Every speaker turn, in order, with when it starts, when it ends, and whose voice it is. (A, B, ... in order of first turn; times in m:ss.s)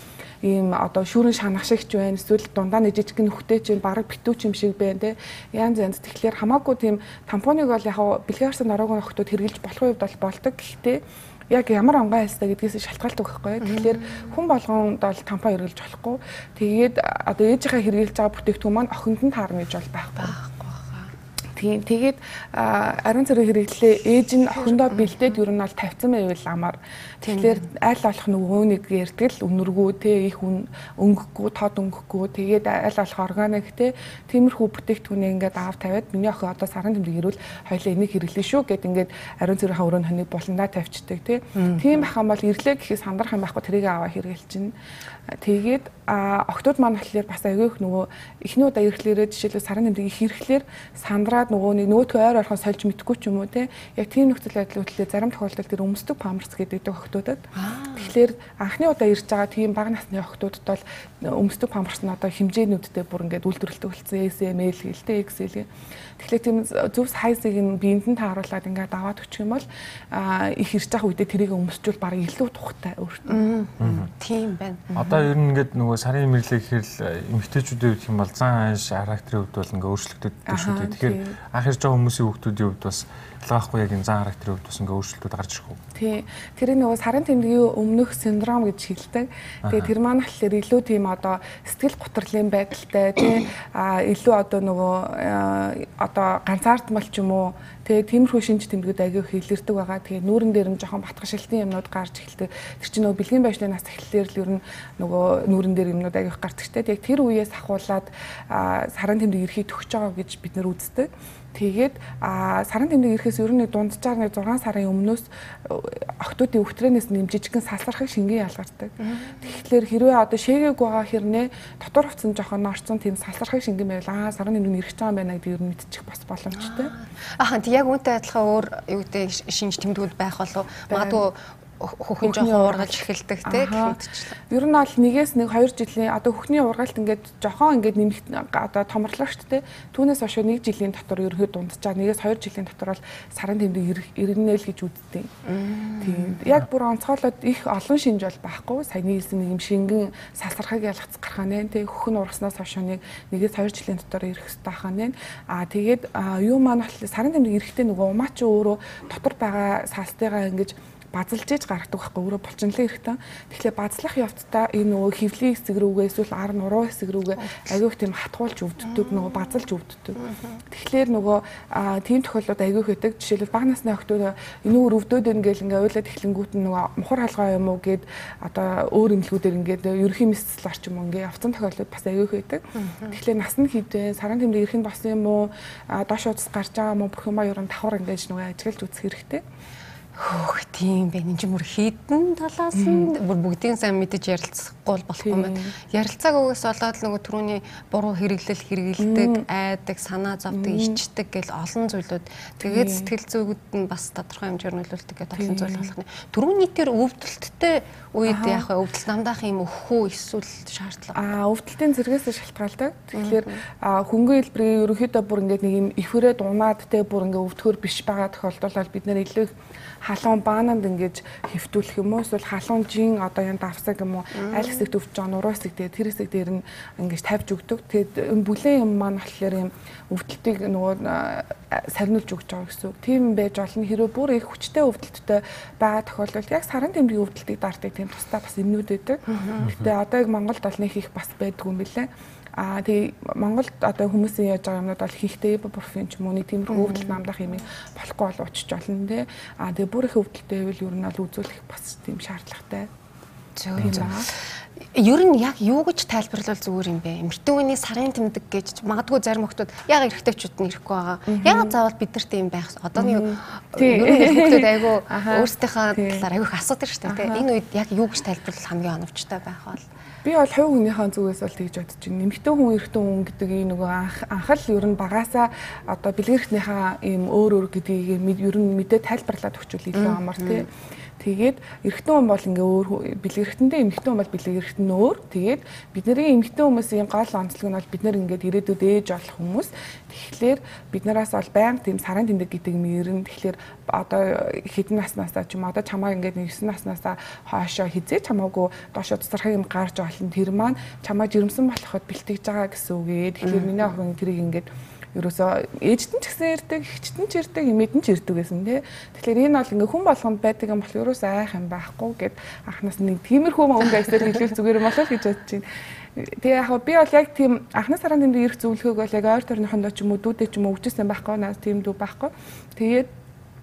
0:00.4-0:11.0 A
0:11.5-0:20.4 A
0:13.6-0:14.3 B
0:20.2-0:21.1 B
0:21.6-0:44.7 A
0:24.6-0:25.3 B
0:27.2-0:27.6 B
0:41.6-0:42.0 B
0:45.4-0:57.4 A
0:57.6-0:58.1 B
0:58.0-1:05.7 A
1:06.2-1:13.5 A
1:13.3-1:14.9 B
1:13.8-1:14.1 C
1:14.9-1:15.2 A
1:14.9-1:25.8 C
1:20.5-1:21.4 A
1:26.0-2:06.9 A
1:29.6-1:29.9 C
1:59.0-1:59.5 B
2:06.5-2:14.4 B
2:10.9-2:11.2 A
2:12.2-2:14.0 A
2:14.5-2:25.3 A
2:25.5-2:26.4 B
2:26.0-2:50.2 A
2:47.4-2:47.8 B
2:48.9-2:49.6 B
2:50.2-2:50.6 B
2:50.7-3:09.4 A
3:02.8-3:03.2 B
3:10.2-3:31.2 B
3:12.8-3:13.1 A
3:15.2-3:15.7 A
3:19.0-3:19.4 A
3:20.5-3:21.0 A
3:22.6-3:23.1 A
3:25.4-3:25.9 A
3:28.3-3:28.7 A
3:31.2-3:39.5 A
3:33.2-3:33.5 B
3:40.0-4:12.9 A
3:44.4-3:44.9 B
3:59.3-3:59.7 B
4:06.7-4:07.2 B
4:13.6-4:14.3 B
4:13.8-4:14.3 A
4:13.8-4:14.1 C
4:15.0-4:29.8 B
4:21.3-4:21.8 A
4:23.0-4:26.3 A
4:27.1-4:27.5 A
4:30.2-4:40.7 A
4:39.9-4:40.6 B
4:41.2-5:15.6 A
5:03.4-5:03.7 B
5:16.2-5:23.1 A